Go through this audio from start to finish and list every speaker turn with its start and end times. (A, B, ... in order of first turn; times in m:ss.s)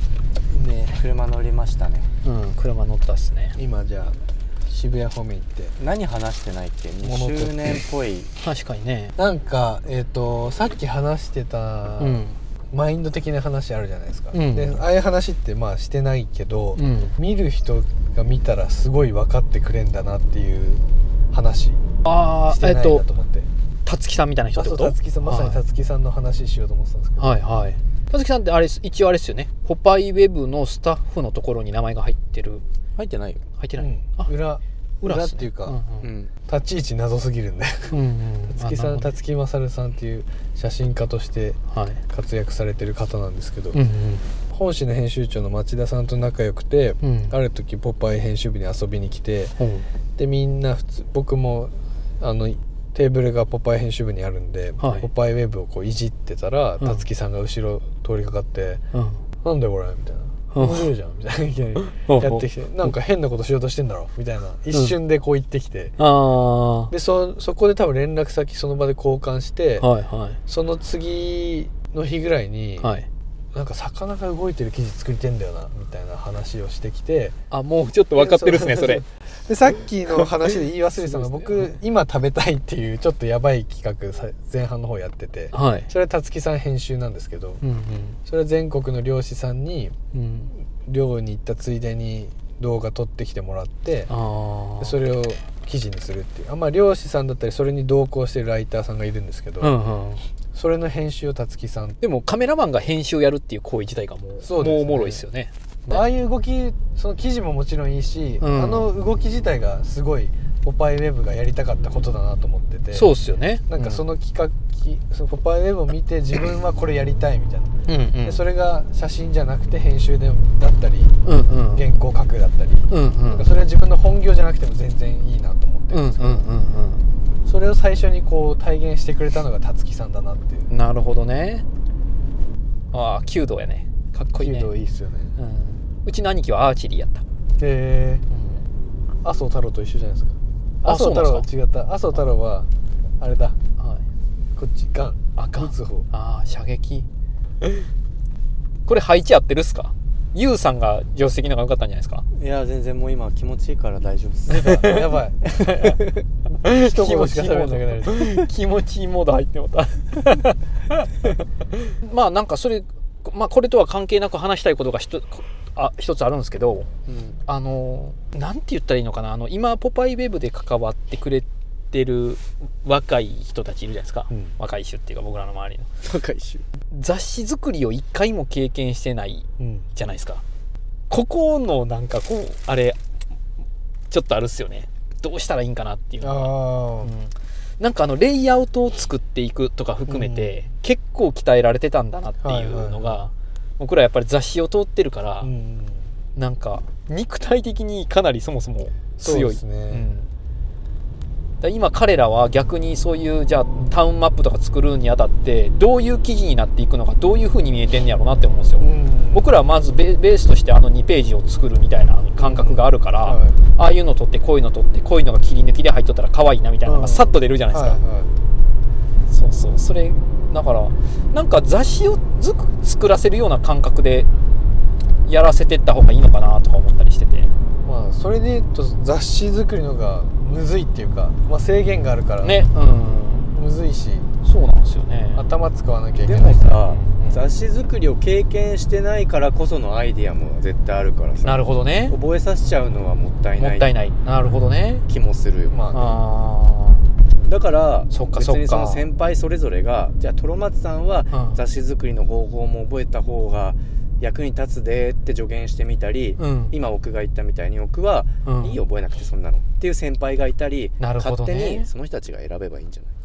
0:00.5-0:01.0 A
0:00.9-0:02.1 B
0:02.2-0:03.6 C
0:03.6-0:05.7 A
0:05.8-0:08.3 B
0:07.0-0:07.8 A
0:08.4-0:09.1 C
0:09.2-0:21.8 A
0:12.0-0:12.4 C
0:14.3-0:14.8 C
0:16.8-0:17.2 C
0:22.0-0:23.0 C
0:22.5-0:23.5 A
0:23.8-0:25.6 C
0:24.6-0:27.4 A
0:27.2-0:32.6 C
0:33.0-0:33.4 B
0:33.6-0:34.3 C
0:33.8-0:35.8 A
0:35.0-0:36.1 C
0:36.0-0:36.3 B
0:36.5-0:38.0 A
0:37.9-0:39.1 C
0:38.5-0:43.8 A
0:41.7-0:42.0 C
0:43.7-0:44.2 C
0:44.5-0:49.6 A
0:47.0-0:47.4 C
0:49.6-0:49.9 C
0:50.2-0:58.8 A
0:54.8-0:55.1 C
0:58.9-0:59.2 C
0:59.4-1:06.0 A
1:00.5-1:00.9 C
1:01.9-1:02.9 C
1:04.7-1:05.0 C
1:06.0-1:06.9 C
1:06.9-1:09.9 A
1:09.8-1:10.4 C
1:10.5-1:12.9 A
1:12.8-1:13.1 C
1:13.5-1:17.4 A
1:17.5-1:19.0 C
1:18.1-1:27.6 A
1:21.0-1:21.7 C
1:25.5-1:25.9 C
1:27.6-1:28.2 C
1:28.2-1:30.0 A
1:30.1-1:30.5 C
1:30.7-1:34.1 A
1:34.1-1:35.0 C
1:34.8-1:39.7 A
1:39.6-1:40.2 C
1:40.5-1:42.0 A
1:42.0-1:46.0 C
1:44.4-1:45.2 A
1:45.9-1:53.1 A
1:48.4-1:48.9 C
1:52.9-1:54.0 C
1:53.7-2:01.1 A
1:57.9-1:58.4 C
2:01.2-2:01.9 C
2:01.7-2:06.5 A
2:02.9-2:03.5 C
2:05.9-2:07.1 C
2:07.4-2:10.7 A
2:10.7-2:11.6 C
2:12.9-2:14.7 C
2:14.3-2:15.3 A
2:15.4-2:17.2 C
2:17.6-2:18.2 A
2:18.3-2:18.6 C
2:19.2-2:22.7 A
2:20.8-2:21.5 C
2:23.2-2:23.6 A
2:24.6-2:26.0 A
2:25.4-2:27.1 C
2:28.8-2:32.2 C
2:32.3-2:34.8 B
2:34.5-2:36.0 A
2:34.5-2:35.0 C
2:35.5-2:36.1 B
2:36.6-2:46.9 C
2:36.6-2:38.5 A
2:47.1-2:47.4 B
2:47.4-2:55.9 C
2:56.0-2:56.6 B
2:56.9-3:00.4 C
2:59.6-2:59.9 A
3:01.1-3:03.0 C
3:04.1-3:15.5 C
3:06.2-3:07.1 A
3:10.1-3:10.6 A
3:12.4-3:13.2 A
3:15.4-3:16.1 A
3:16.4-3:20.3 C
3:19.2-3:20.0 A
3:21.6-3:38.0 C
3:28.8-3:29.5 A
3:32.4-3:33.6 A
3:36.8-3:38.3 A
3:39.3-3:44.3 C
3:45.2-3:47.5 C
3:47.8-3:52.6 A
3:52.4-3:53.5 C
3:53.5-3:54.3 A
3:54.4-3:55.5 C
3:55.3-3:56.7 A
3:56.2-4:03.9 B
3:56.7-3:57.4 C
4:01.4-4:02.2 C
4:03.6-4:05.0 C
4:05.1-4:05.8 B
4:05.7-4:06.1 A
4:05.9-4:07.0 C
4:07.4-4:23.1 B
4:08.1-4:09.0 C
4:11.3-4:11.6 C
4:16.4-4:16.7 C
4:18.4-4:18.8 C
4:21.0-4:21.9 C